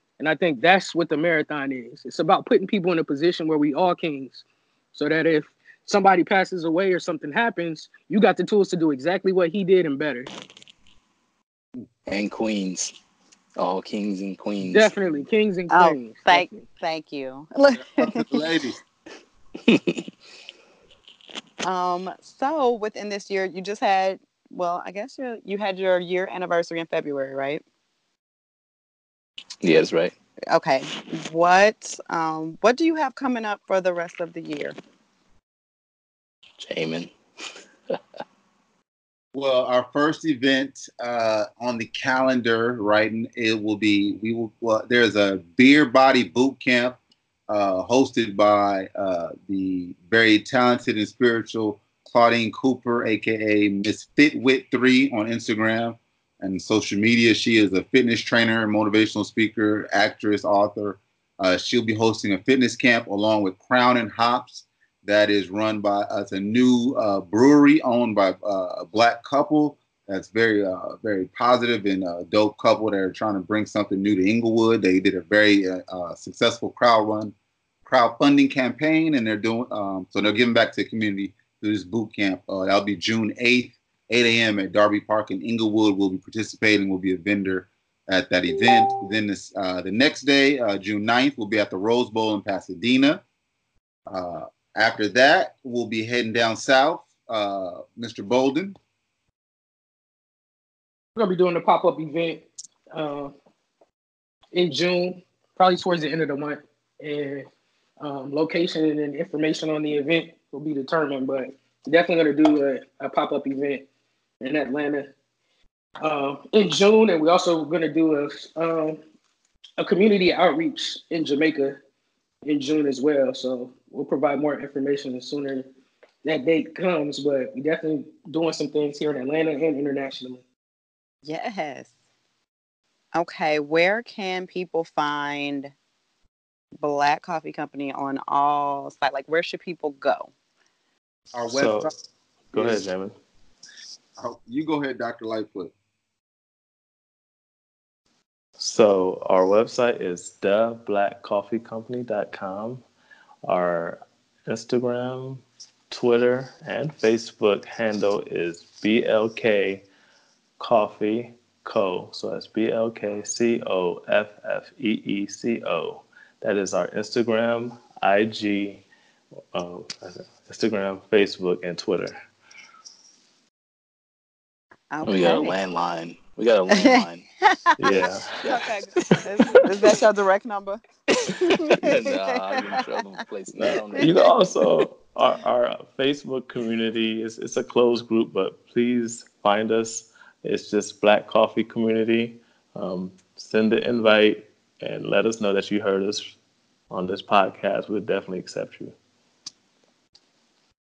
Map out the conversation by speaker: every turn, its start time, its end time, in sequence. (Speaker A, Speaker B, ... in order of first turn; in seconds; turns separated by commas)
Speaker A: 0.2-10.3, Speaker B: 12.1-12.9, Speaker B: 13.6-14.9, Speaker A: 14.6-16.6, Speaker C: 15.7-18.2, Speaker D: 17.8-18.8, Speaker B: 19.6-20.1, Speaker C: 21.6-27.6, Speaker B: 29.6-30.1, Speaker C: 30.5-34.8, Speaker B: 36.6-37.1, Speaker D: 39.3-47.0, Speaker D: 47.5-77.3, Speaker D: 77.8-93.2, Speaker D: 94.1-98.8, Speaker A: 101.2-103.3, Speaker A: 104.5-107.5, Speaker A: 108.0-113.8, Speaker A: 114.4-115.1, Speaker A: 116.0-119.0, Speaker A: 119.8-121.8, Speaker A: 122.4-125.7, Speaker A: 126.2-130.4, Speaker C: 131.2-131.9, Speaker C: 133.1-135.7, Speaker C: 136.8-140.3, Speaker D: 141.3-141.9, Speaker E: 141.5-141.9, Speaker E: 142.5-143.1, Speaker D: 142.5-142.9, Speaker D: 144.2-145.7, Speaker E: 148.6-152.8, Speaker E: 153.4-159.8, Speaker E: 160.6-168.8, Speaker E: 169.5-172.2, Speaker C: 174.9-175.6, Speaker B: 175.1-177.2, Speaker C: 176.7-182.8, Speaker E: 177.8-178.4, Speaker B: 178.0-178.7, Speaker B: 181.7-184.8, Speaker E: 183.6-196.3, Speaker C: 183.8-184.3, Speaker E: 196.9-198.9